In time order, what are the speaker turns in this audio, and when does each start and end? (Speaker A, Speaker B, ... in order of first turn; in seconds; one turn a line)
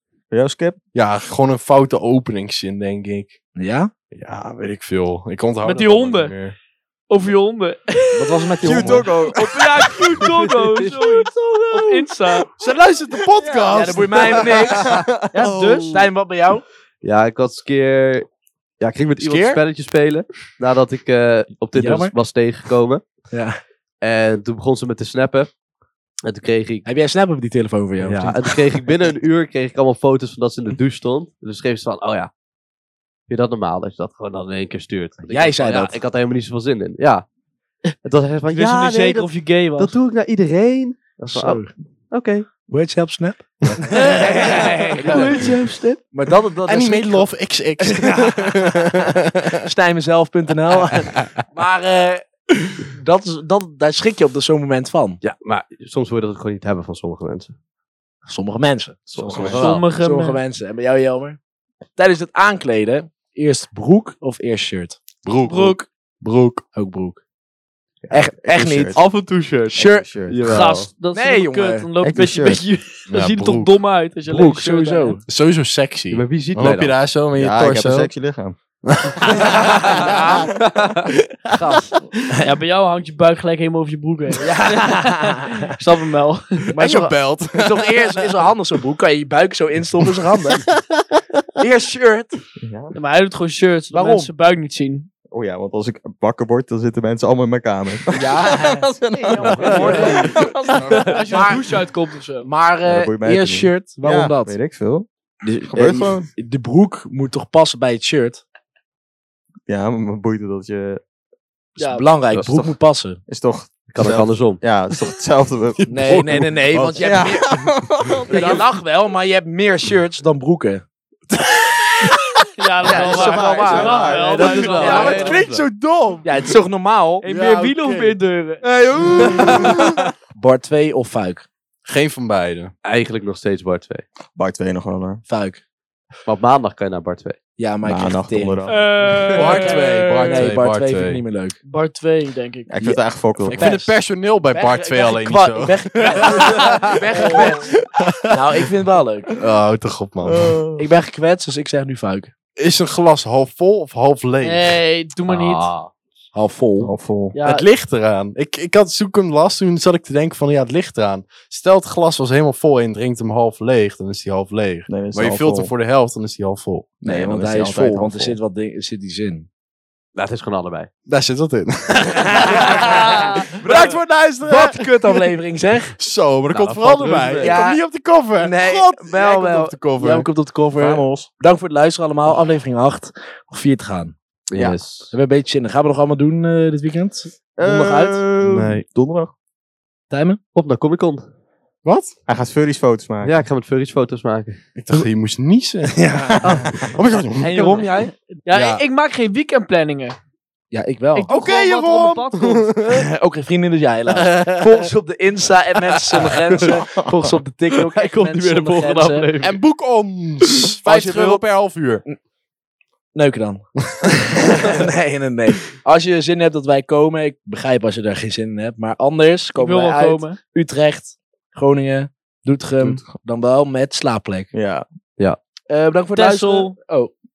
Speaker A: 0.3-0.8
Speaker B: 0.9-3.4
Speaker C: 3.5-3.9
Speaker B: 4.1-6.5
Speaker D: 5.6-6.3
Speaker D: 7.1-8.6
Speaker C: 8.1-9.1
Speaker A: 8.6-9.9
Speaker D: 9.3-12.5
Speaker E: 10.2-11.3
Speaker B: 12.6-15.8
Speaker A: 13.4-15.5
Speaker C: 13.7-14.9
Speaker D: 15.3-16.1
Speaker C: 15.9-16.6
Speaker E: 17.0-18.3
Speaker E: 18.8-23.0
Speaker C: 19.2-19.6
Speaker C: 21.7-22.1
Speaker C: 23.3-23.6
Speaker E: 24.0-25.5
Speaker E: 26.2-26.8
Speaker C: 26.8-28.7
Speaker E: 28.0-32.3
Speaker E: 33.3-37.2
Speaker C: 35.2-36.0
Speaker E: 38.0-42.5
Speaker D: 38.5-39.9
Speaker C: 41.2-41.7
Speaker C: 42.6-49.0
Speaker D: 43.9-46.0
Speaker B: 45.1-45.5
Speaker B: 46.6-49.5
Speaker C: 49.6-55.2
Speaker E: 55.2-57.5
Speaker C: 58.3-61.4
Speaker A: 59.1-59.6
Speaker E: 59.2-59.7
Speaker D: 59.5-60.4
Speaker C: 62.0-65.0
Speaker B: 65.2-66.6
Speaker D: 65.4-65.8
Speaker C: 66.7-67.2
Speaker A: 68.0-69.0
Speaker C: 68.1-69.0
Speaker E: 68.9-70.9
Speaker A: 69.7-70.4
Speaker C: 69.7-70.1
Speaker D: 70.4-75.2
Speaker C: 71.1-71.9
Speaker A: 72.0-72.6
Speaker B: 73.1-73.7
Speaker C: 74.3-75.2
Speaker B: 75.2-78.1
Speaker E: 76.1-77.0
Speaker A: 77.3-78.5
Speaker B: 78.9-80.1
Speaker C: 79.3-80.5
Speaker C: 81.5-81.8
Speaker D: 81.6-86.8
Speaker C: 84.4-85.7
Speaker C: 86.7-90.7
Speaker B: 86.8-88.4
Speaker B: 90.2-90.8
Speaker C: 91.6-92.3
Speaker A: 92.6-92.9
Speaker D: 92.9-95.1
Speaker C: 93.9-94.3
Speaker A: 95.3-101.0
Speaker C: 98.1-100.4
Speaker D: 99.3-102.5
Speaker B: 100.5-101.8
Speaker C: 101.3-101.8
Speaker C: 102.4-104.5
Speaker A: 102.8-106.2
Speaker E: 105.7-106.1
Speaker C: 106.3-108.4
Speaker A: 109.7-111.0
Speaker D: 111.8-112.1
Speaker C: 111.8-113.2
Speaker A: 112.5-112.7
Speaker A: 113.3-116.3
Speaker E: 113.9-114.6
Speaker B: 115.8-117.6
Speaker C: 115.9-117.5
Speaker A: 117.0-118.7
Speaker C: 118.3-120.8
Speaker B: 121.3-122.5
Speaker D: 122.6-125.4
Speaker C: 122.8-125.7
Speaker A: 122.8-124.7
Speaker E: 124.1-125.7
Speaker B: 125.4-126.2
Speaker C: 126.2-127.2
Speaker D: 127.2-129.3
Speaker B: 127.2-130.0
Speaker C: 129.2-129.7
Speaker C: 130.3-131.5
Speaker B: 131.8-132.7
Speaker E: 132.8-134.0
Speaker A: 134.3-135.2
Speaker C: 135.3-135.6
Speaker E: 136.2-137.4
Speaker C: 137.6-138.7
Speaker A: 137.8-138.8
Speaker D: 138.7-140.5
Speaker B: 139.3-141.2
Speaker C: 139.3-141.6
Speaker D: 141.7-142.8
Speaker A: 142.7-143.8
Speaker B: 143.5-148.3
Speaker C: 143.5-147.7
Speaker D: 146.6-147.6
Speaker C: 148.3-149.3
Speaker B: 149.4-150.6
Speaker A: 150.2-150.8
Speaker C: 150.8-152.3
Speaker B: 152.6-154.8
Speaker D: 154.4-155.7
Speaker E: 155.3-155.9
Speaker C: 156.3-156.9
Speaker A: 156.8-157.3
Speaker D: 157.3-157.7
Speaker B: 157.4-166.9
Speaker A: 164.9-165.7
Speaker A: 167.0-168.4
Speaker C: 167.0-169.5
Speaker E: 170.1-170.9
Speaker B: 171.1-175.3
Speaker C: 172.4-175.9
Speaker D: 173.0-173.4
Speaker B: 176.0-180.3
Speaker E: 176.5-177.6
Speaker C: 177.3-177.8
Speaker C: 178.4-184.1
Speaker A: 180.8-181.3
Speaker E: 184.5-185.1
Speaker C: 185.1-188.2
Speaker A: 187.6-189.3
Speaker B: 188.4-188.8
Speaker C: 190.1-190.4
Speaker E: 190.5-191.2
Speaker B: 191.8-192.1
Speaker A: 192.3-193.3
Speaker E: 193.2-194.6
Speaker B: 194.8-197.8
Speaker C: 195.9-196.8
Speaker C: 197.3-198.1
Speaker D: 198.2-200.2
Speaker B: 198.5-198.8
Speaker C: 200.7-201.3
Speaker D: 201.1-202.7
Speaker B: 201.3-203.1
Speaker C: 202.9-209.2
Speaker B: 204.1-204.8
Speaker E: 207.7-209.6
Speaker B: 209.4-212.0
Speaker C: 210.8-211.5
Speaker C: 213.1-224.5
Speaker D: 219.6-220.4
Speaker A: 222.8-223.1
Speaker A: 224.5-224.8
Speaker C: 225.7-227.1
Speaker D: 226.1-226.8